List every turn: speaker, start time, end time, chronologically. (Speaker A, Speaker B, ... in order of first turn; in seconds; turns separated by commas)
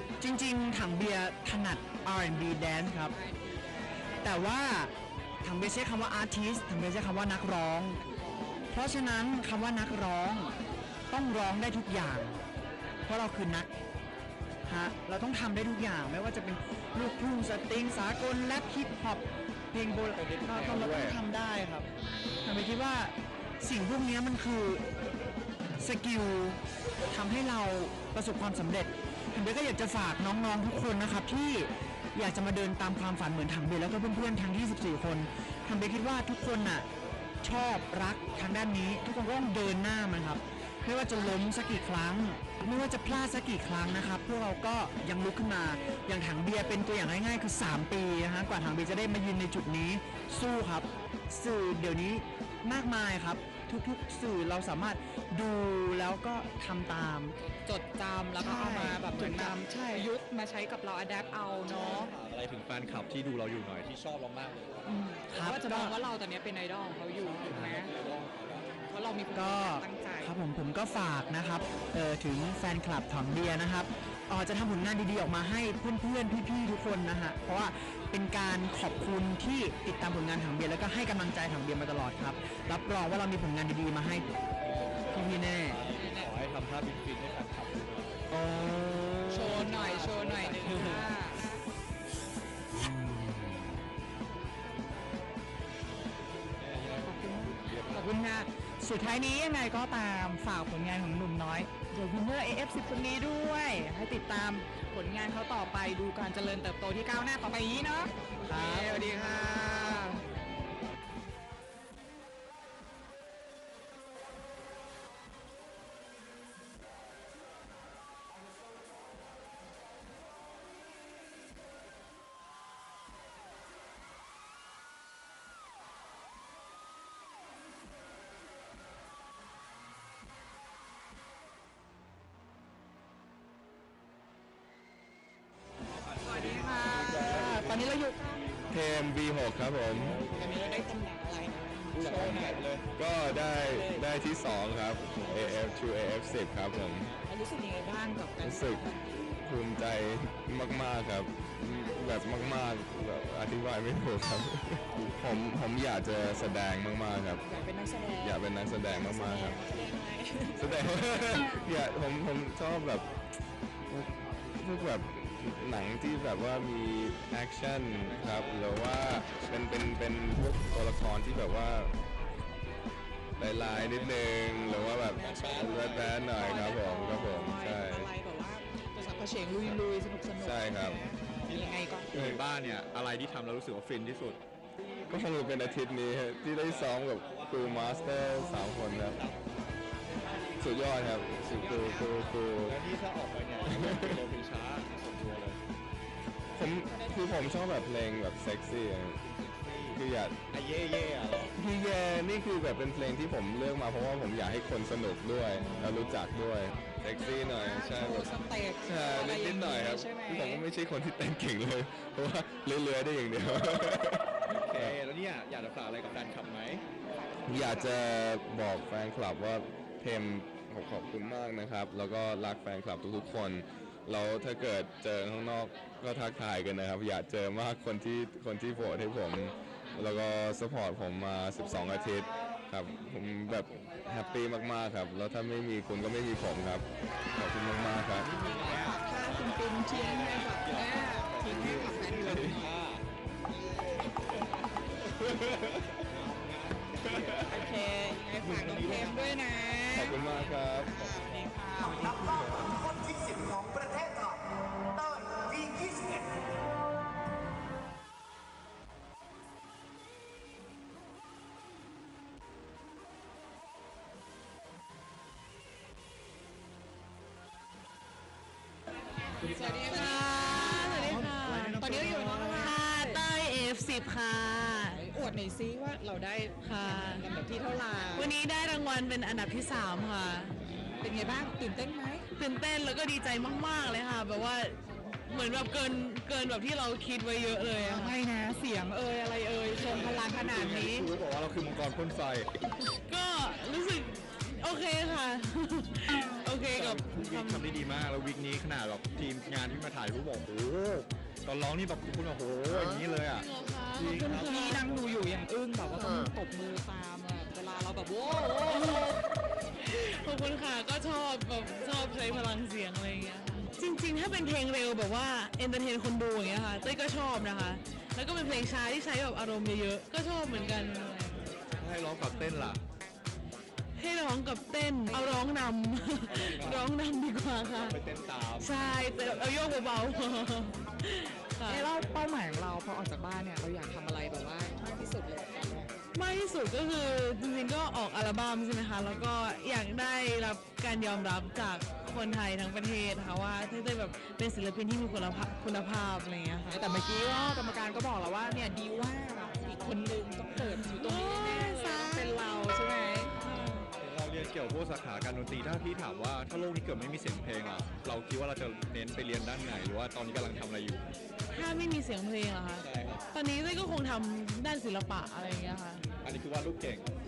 Speaker A: 0.2-3.1, Speaker B: 3.0-4.1, Speaker A: 4.2-4.9, Speaker A: 5.4-8.0, Speaker B: 8.0-8.6, Speaker A: 8.7-10.5, Speaker A: 11.1-12.4, Speaker A: 13.1-13.7, Speaker A: 14.7-21.9, Speaker C: 19.9-21.2, Speaker A: 22.4-24.8, Speaker A: 25.8-26.6, Speaker A: 27.1-36.9, Speaker A: 37.4-57.3, Speaker B: 57.6-62.1, Speaker A: 58.4-60.1, Speaker C: 61.7-64.7, Speaker B: 64.9-67.9, Speaker A: 65.3-66.0, Speaker C: 67.2-68.7, Speaker B: 68.7-70.3, Speaker A: 69.3-84.2, Speaker A: 85.1-85.8, Speaker C: 85.7-88.2, Speaker B: 86.0-86.3, Speaker A: 88.3-89.9, Speaker B: 89.3-91.6, Speaker C: 89.8-91.0, Speaker A: 90.6-91.1, Speaker C: 96.6-98.4, Speaker B: 97.0-110.2, Speaker B: 136.2-138.4, Speaker C: 136.9-137.8, Speaker D: 138.7-140.3, Speaker C: 140.0-140.7, Speaker B: 140.1-142.7, Speaker C: 141.9-142.8, Speaker D: 142.9-147.1, Speaker B: 143.6-144.1, Speaker B: 147.2-149.1, Speaker D: 148.4-148.9, Speaker D: 149.4-157.4, Speaker B: 157.5-160.8, Speaker D: 158.2-159.6, Speaker D: 160.5-163.0, Speaker D: 163.9-171.9, Speaker C: 168.0-169.3, Speaker D: 173.4-178.1, Speaker C: 173.7-176.1, Speaker B: 174.9-182.1, Speaker D: 180.4-181.0, Speaker C: 181.4-184.4, Speaker D: 182.1-182.4, Speaker D: 185.1-189.2, Speaker C: 186.6-188.4, Speaker C: 189.0-189.4, Speaker D: 190.6-192.8, Speaker B: 191.6-192.1, Speaker C: 192.6-195.6, Speaker D: 193.6-194.2, Speaker D: 196.6-199.2, Speaker B: 196.8-197.6, Speaker C: 199.3-200.0, Speaker D: 199.9-200.4, Speaker C: 200.5-201.5, Speaker D: 201.6-208.3, Speaker B: 205.6-206.0, Speaker B: 206.9-210.6, Speaker D: 208.8-214.9, Speaker C: 214.5-216.8, Speaker B: 217.1-218.1, Speaker D: 217.4-238.3, Speaker C: 233.4-233.9, Speaker C: 237.9-243.0, Speaker B: 238.4-242.6, Speaker D: 241.6-242.6, Speaker D: 245.2-245.5, Speaker C: 246.1-247.8, Speaker B: 247.5-252.1, Speaker C: 248.4-249.3, Speaker D: 249.9-250.9, Speaker B: 269.4-271.2, Speaker C: 269.4-269.9, Speaker E: 269.9-275.0, Speaker C: 271.1-272.7, Speaker B: 271.8-273.2, Speaker B: 274.8-278.3, Speaker E: 276.6-277.3, Speaker E: 278.1-280.6, Speaker C: 280.7-281.3, Speaker B: 281.0-282.2, Speaker E: 282.3-284.8, Speaker E: 285.3-288.1, Speaker B: 287.8-291.1, Speaker C: 289.8-292.5, Speaker E: 293.1-297.7, Speaker C: 296.7-305.4, Speaker E: 303.2-304.4, Speaker B: 304.1-309.1, Speaker E: 308.7-309.2, Speaker E: 309.8-321.4, Speaker C: 321.8-322.8, Speaker E: 323.9-328.0, Speaker B: 325.1-325.4, Speaker C: 326.3-326.9, Speaker C: 327.9-328.7, Speaker E: 328.6-331.9, Speaker B: 331.7-335.9, Speaker E: 336.1-346.8, Speaker B: 346.7-353.3, Speaker E: 350.6-352.3, Speaker E: 353.4-353.9, Speaker C: 354.0-361.1, Speaker E: 361.5-366.0, Speaker C: 362.8-363.2, Speaker C: 366.2-367.1